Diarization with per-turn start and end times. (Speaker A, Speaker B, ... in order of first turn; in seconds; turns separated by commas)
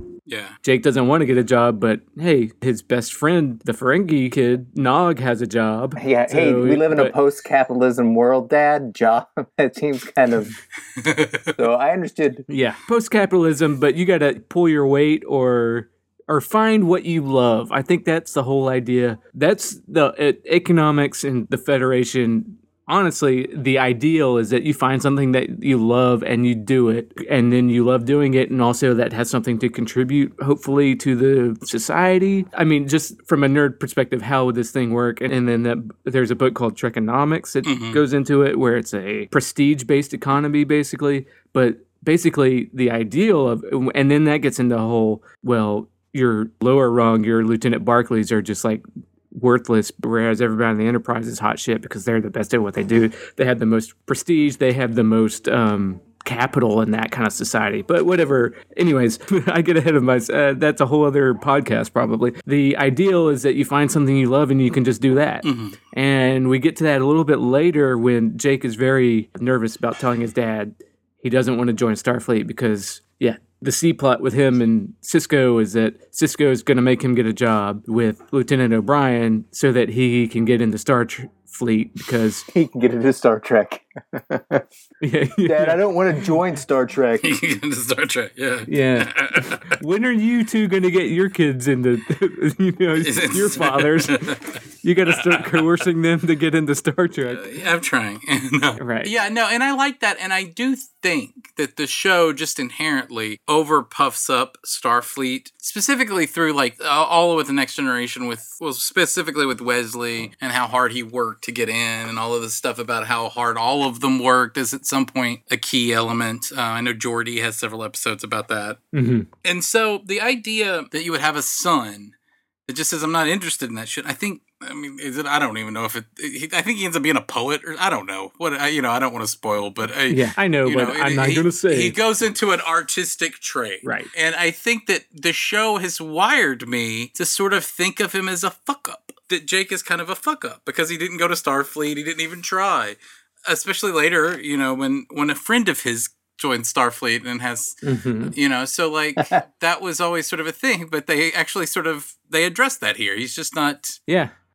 Speaker A: 0.3-0.6, Speaker B: 0.6-7.1, Speaker C: 6.0-10.5, Speaker A: 11.0-11.5, Speaker C: 11.6-12.4, Speaker B: 12.5-82.4, Speaker A: 37.6-38.0, Speaker A: 65.4-65.8, Speaker C: 82.5-84.6, Speaker B: 85.0-85.9, Speaker C: 85.4-87.3, Speaker A: 87.2-89.7, Speaker B: 88.7-94.3, Speaker A: 93.0-95.7, Speaker B: 94.8-97.5, Speaker A: 97.3-118.8, Speaker B: 98.8-99.1, Speaker B: 118.9-119.3, Speaker A: 119.4-122.1, Speaker A: 122.7-147.8, Speaker B: 130.1-131.9, Speaker B: 133.8-134.1, Speaker B: 147.8-148.3, Speaker A: 148.3-154.0, Speaker B: 154.1-154.3